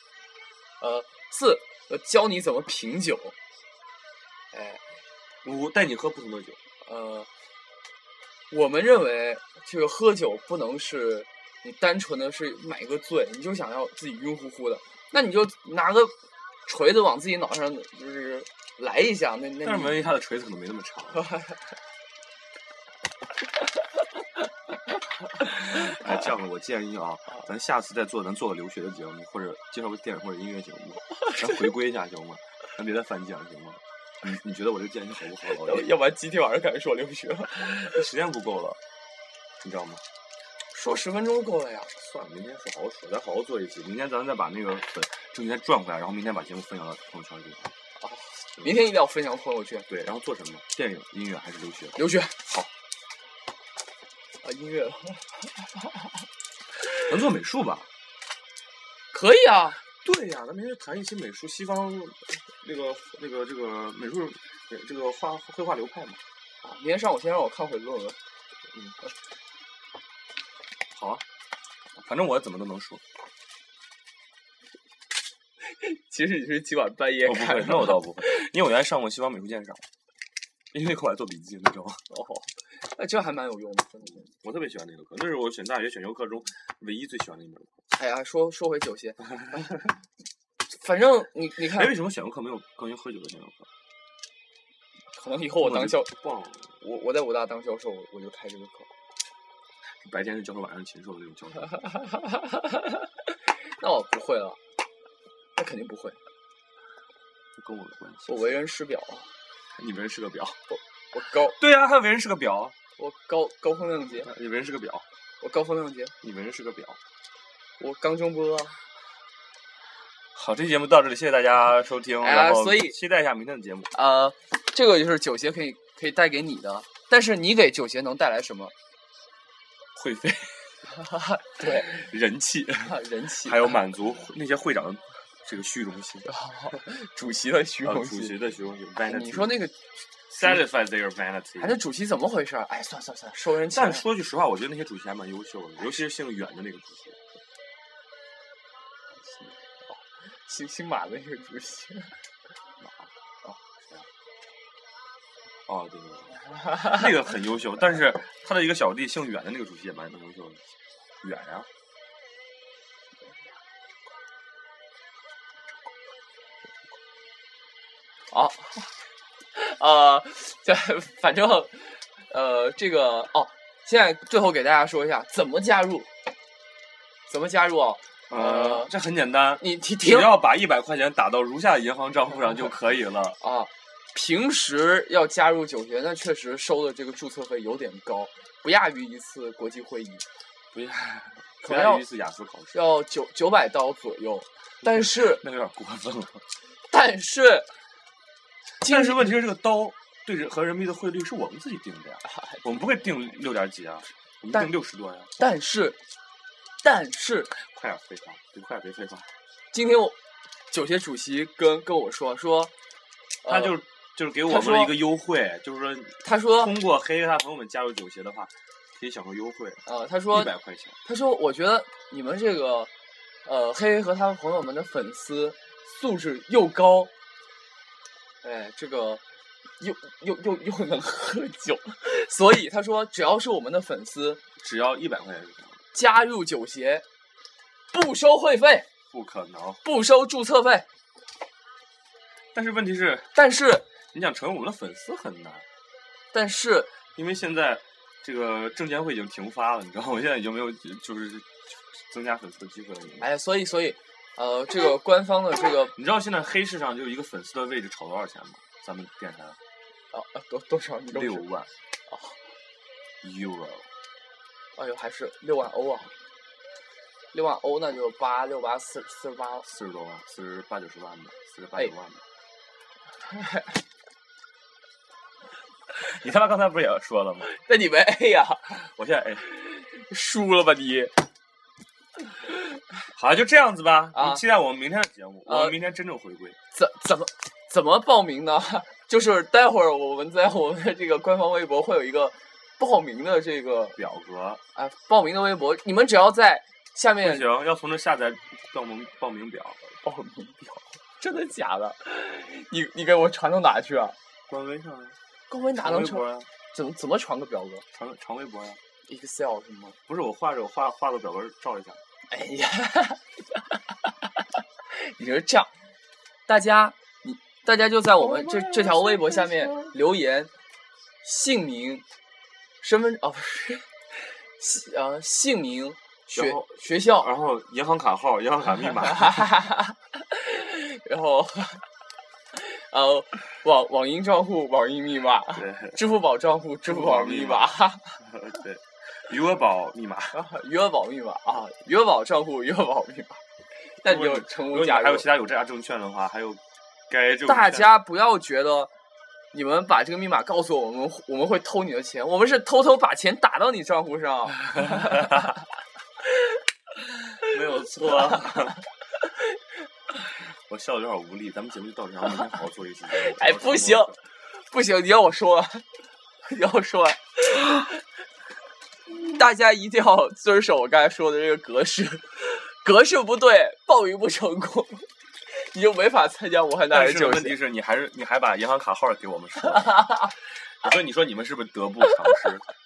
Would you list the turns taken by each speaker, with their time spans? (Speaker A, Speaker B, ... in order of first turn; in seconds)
Speaker A: 0.8-3.4, 4.5-4.8, 6.8-7.3, 8.5-16.1, 16.6-20.1, 35.5-38.0, 40.7-41.9, 48.0-49.9, 52.0-52.4, 54.4-56.1, 59.1-59.8, 66.6-68.2, 75.6-78.3, 82.1-84.3, 87.9-89.8, 90.7-91.9, 95.1-96.1, 96.8-98.9, 103.5-104.6, 105.5-106.2, 108.3-109.3, 110.7-111.6, 113.0-114.3, 115.4-116.1, 117.8-118.8, 122.2-123.0, 123.9-128.7, 130.9-131.9, 132.9-133.6, 136.2-138.3, 139.1-139.8, 141.6-144.1, 149.4-152.2, 168.3-168.9, 169.5-176.1, 177.3-178.9, 179.6-180.3, 183.4-190.2, 191.6-192.0, 192.7-195.4, 196.9-197.7, 198.8-199.2, 205.4-206.0, 206.8-207.5, 209.7-210.2, 210.7-212.7, 213.4-213.8, 214.4-215.0, 216.2-216.7, 219.8-220.5, 221.0-222.9, 223.4-227.1, 228.4-229.2, 229.8-234.4, 235.9-237.0, 237.9-238.9, 239.8-240.9, 243.3-243.9, 246.3-246.9, 253.2-255.9, 260.1-261.5, 262.1-262.4, 264.8-266.1, 267.3-269.7, 273.4-273.6, 277.5-278.8, 279.5-281.2, 284.1-284.4, 285.5-285.8, 286.7-294.0, 294.8-297.5, 300.0-304.2, 305.5-307.9, 309.1-310.0, 312.3-313.8, 314.9-315.7, 316.5-320.5, 321.2-322.0, 322.8-327.3, 329.2-331.9, 332.5-338.2, 340.3-343.4, 344.0-345.3, 347.5-348.9, 349.5-355.4, 363.1-365.9, 366.4-368.0, 369.1-377.6
Speaker B: 5.4-6.6, 19.6-21.3, 25.4-35.9, 37.6-38.8, 39.6-40.0, 41.9-47.7, 49.9-52.7, 57.0-57.9, 60.0-66.2, 70.9-71.2, 72.0-73.0, 77.2-79.8, 80.7-82.0, 84.2-87.7, 91.7-93.7, 95.6-96.7, 100.0-101.8, 107.6-108.6, 109.7-110.6, 111.6-112.8, 114.2-115.0, 116.2-117.0, 120.3-123.9, 129.9-130.7, 131.6-136.3, 137.8-139.6, 140.3-141.7, 143.7-147.2, 152.8-154.1, 155.7-160.6, 161.2-161.7, 178.3-183.4, 190.7-192.8, 194.8-196.4, 198.8-205.3, 207.6-209.3, 213.5-221.0, 234.6-235.8, 239.1-239.8, 242.5-243.4, 244.1-245.6, 247.1-253.3, 255.9-259.6, 261.1-261.7, 263.2-263.9, 269.6-272.2, 276.0-277.5, 278.7-279.5, 283.1-286.6, 294.0-294.6, 297.2-299.9, 304.5-305.1, 305.8-306.5, 307.9-308.8, 310.1-312.0, 318.2-319.9, 326.4-329.5, 335.6-336.0, 336.9-340.4, 344.0-347.9, 357.4-358.8, 360.4-364.2, 376.9-380.3, 380.8-382.6